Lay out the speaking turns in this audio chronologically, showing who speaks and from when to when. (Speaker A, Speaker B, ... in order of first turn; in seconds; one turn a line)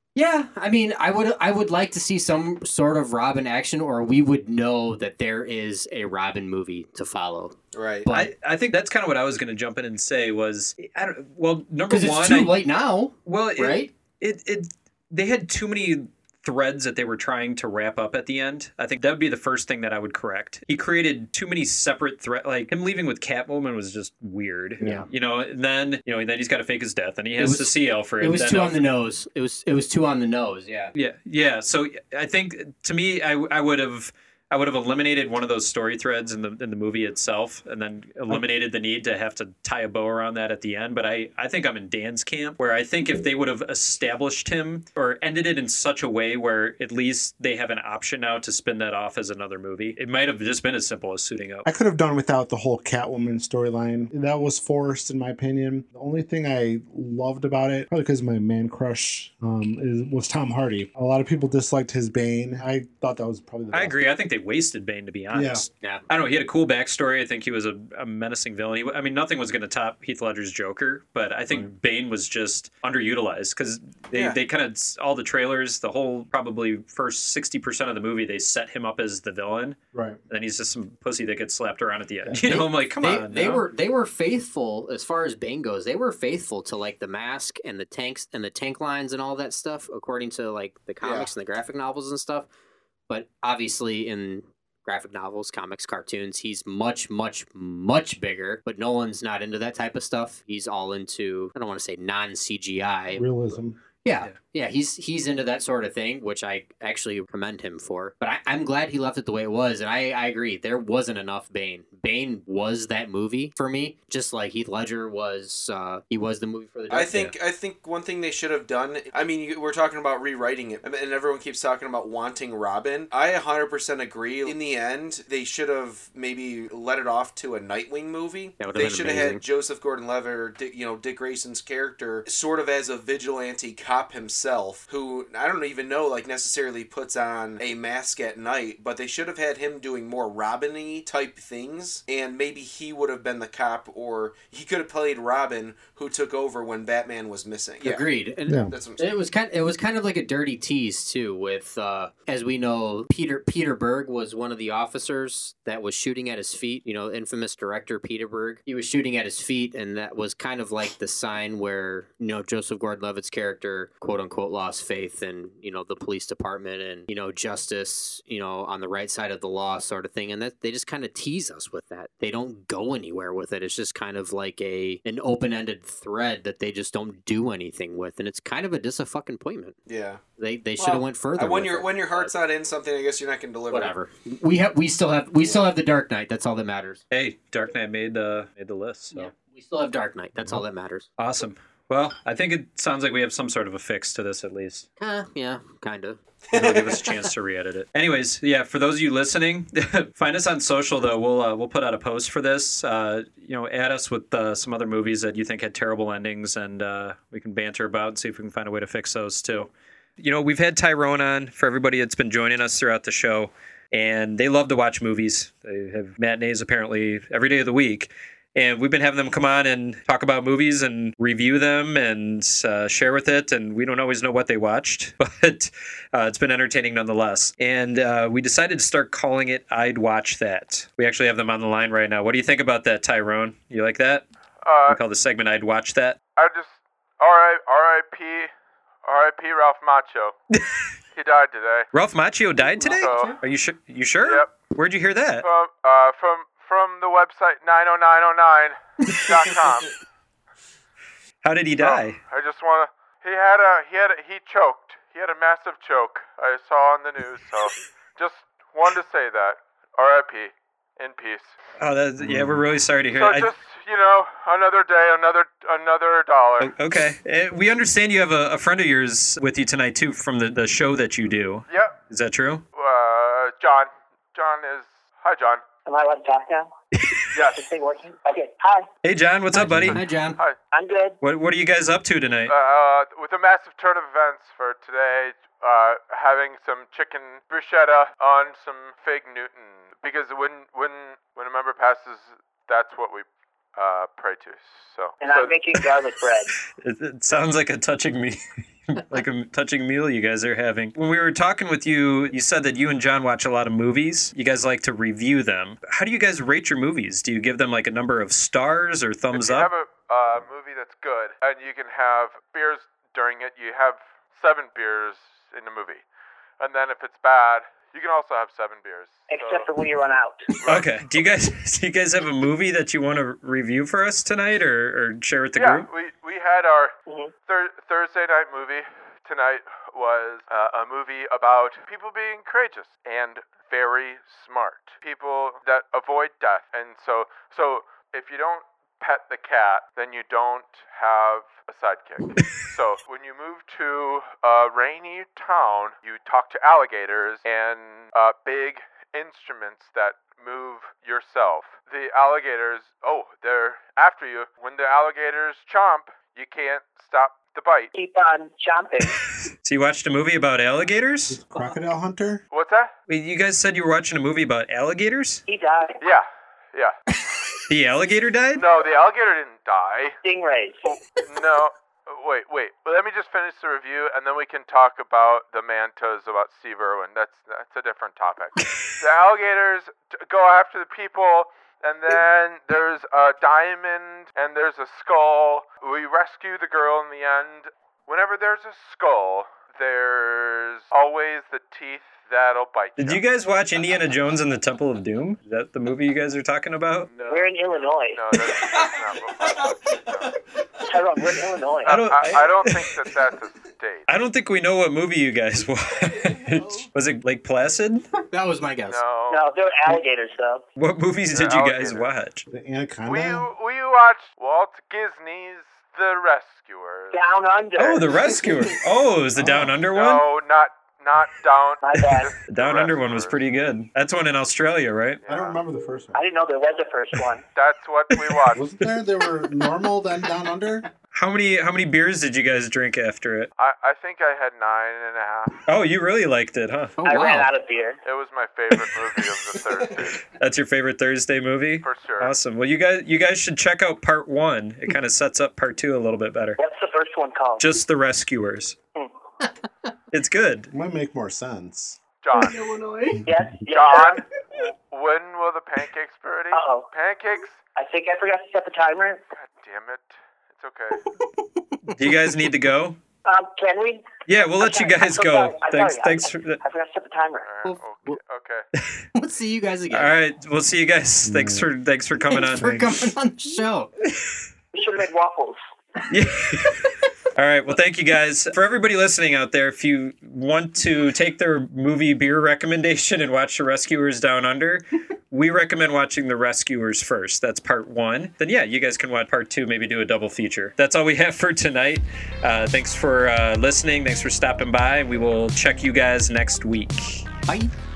Speaker A: 0.1-8.3
Speaker B: 7.7-8.1
Speaker C: 8.1-12.5
Speaker A: 11.9-13.9
Speaker C: 13.2-28.9
Speaker D: 24.8-25.1
Speaker A: 24.8-25.1
Speaker A: 27.4-30.9
Speaker C: 30.9-51.6
Speaker D: 51.6-64.0
Speaker C: 63.7-79.8
Speaker D: 65.3-65.6
Speaker B: 74.1-74.4
Speaker D: 79.9-80.2
Speaker C: 80.3-83.6
Speaker D: 82.3-82.6
Speaker A: 82.5-92.5
Speaker B: 91.0-91.3
Speaker A: 93.1-103.2
Speaker D: 103.1-103.8
Speaker A: 104.0-117.3
Speaker B: 116.9-148.1
Speaker A: 128.6-129.4
Speaker A: 147.8-179.8
Speaker D: 148.5-148.7
Speaker B: 148.7-149.1
Speaker B: 179.9-180.2
Speaker A: 180.4-182.3
Speaker B: 180.8-183.9
Speaker A: 183.7-187.0
Speaker C: 187.1-189.3
Speaker A: 189.1-191.1
Speaker C: 191.2-194.9
Speaker A: 195.0-196.2
Speaker B: 196.5-197.1
Speaker C: 196.5-234.2
Speaker E: 234.6-235.0
Speaker C: 234.9-236.2
Speaker E: 236.3-238.5
Speaker E: 239.0-240.3
Speaker C: 240.5-240.8
Speaker E: 241.1-241.9
Speaker C: 241.9-245.5
Speaker A: 242.8-243.4
Speaker E: 243.0-243.4
Speaker E: 244.2-244.5
Speaker E: 245.4-249.9
Speaker C: 249.1-249.5
Speaker C: 251.4-252.2
Speaker E: 251.8-261.6
Speaker C: 261.8-263.5
Speaker D: 262.2-262.6
Speaker E: 263.1-266.7
Speaker C: 266.6-272.6
Speaker E: 271.7-272.0
Speaker E: 272.7-275.6
Speaker F: 275.9-276.7
Speaker C: 276.9-277.3
Speaker E: 277.3-277.6
Speaker F: 277.4-278.9
Speaker C: 279.0-280.0
Speaker A: 279.5-280.4
Speaker F: 280.7-281.2
Speaker C: 281.2-282.5
Speaker E: 282.5-295.9
Speaker F: 295.2-296.6
Speaker C: 296.7-309.7
Speaker E: 309.3-316.0
Speaker E: 316.6-319.8
Speaker F: 319.3-320.5
Speaker E: 320.5-320.9
Speaker C: 320.6-325.9
Speaker E: 325.6-326.9
Speaker F: 327.1-327.3
Speaker E: 327.4-357.9
Speaker F: 357.9-359.2
Speaker C: 359.5-361.4
Speaker D: 361.3-362.4
Speaker E: 362.5-362.9
Speaker C: 363.1-365.4
Speaker F: 365.5-366.0
Speaker E: 366.0-366.9
Speaker C: 367.7-368.6
Speaker E: 368.5-370.2
Speaker F: 370.2-370.9
Speaker E: 370.8-393.2
Speaker C: 393.0-397.1
Speaker E: 397.1-397.6
Speaker F: 397.2-398.4
Speaker E: 398.1-400.3
Speaker B: 399.4-400.3
Speaker F: 400.9-402.1
Speaker E: 401.8-404.1
Speaker C: 401.9-402.9
Speaker C: 404.1-408.1
Speaker B: 406.1-406.4
Speaker A: 408.1-409.0
Speaker E: 408.9-409.4
Speaker F: 409.3-410.6
Speaker C: 410.8-412.4
Speaker E: 411.3-412.1
Speaker D: 412.5-413.4
Speaker E: 413.1-417.2
Speaker F: 417.1-418.2
Speaker C: 417.8-420.2
Speaker D: 419.4-419.8
Speaker E: 419.9-423.4
Speaker F: 421.8-422.3
Speaker C: 422.5-425.2
Speaker E: 425.2-425.6
Speaker D: 425.3-426.2
Speaker F: 426.1-427.4
Speaker E: 427.5-428.8
Speaker C: 428.1-429.5
Speaker D: 428.5-430.8
Speaker C: 431.1-433.5
Speaker E: 433.6-435.6
Speaker C: 435.6-436.9
Speaker A: 437.0-437.5
Speaker F: 437.0-438.0
Speaker E: 438.0-440.2
Speaker C: 440.3-446.6
Speaker E: 441.8-442.3
Speaker F: 446.6-447.7
Speaker C: 447.6-448.8
Speaker C: 450.1-450.7
Speaker D: 450.7-452.0
Speaker E: 452.2-452.7
Speaker A: 452.4-453.2
Speaker F: 453.2-454.2
Speaker E: 453.6-457.6
Speaker F: 456.5-456.9
Speaker F: 457.7-459.2
Speaker E: 459.3-461.0
Speaker C: 461.9-463.0
Speaker F: 463.2-467.5
Speaker C: 464.3-466.6
Speaker E: 467.4-468.6
Speaker A: 467.6-468.2
Speaker A: 469.1-470.1
Speaker C: 469.9-472.9
Speaker D: 471.2-471.7
Speaker A: 472.3-473.9
Speaker C: 474.0-474.4
Speaker F: 474.7-475.6
Speaker C: 476.1-497.3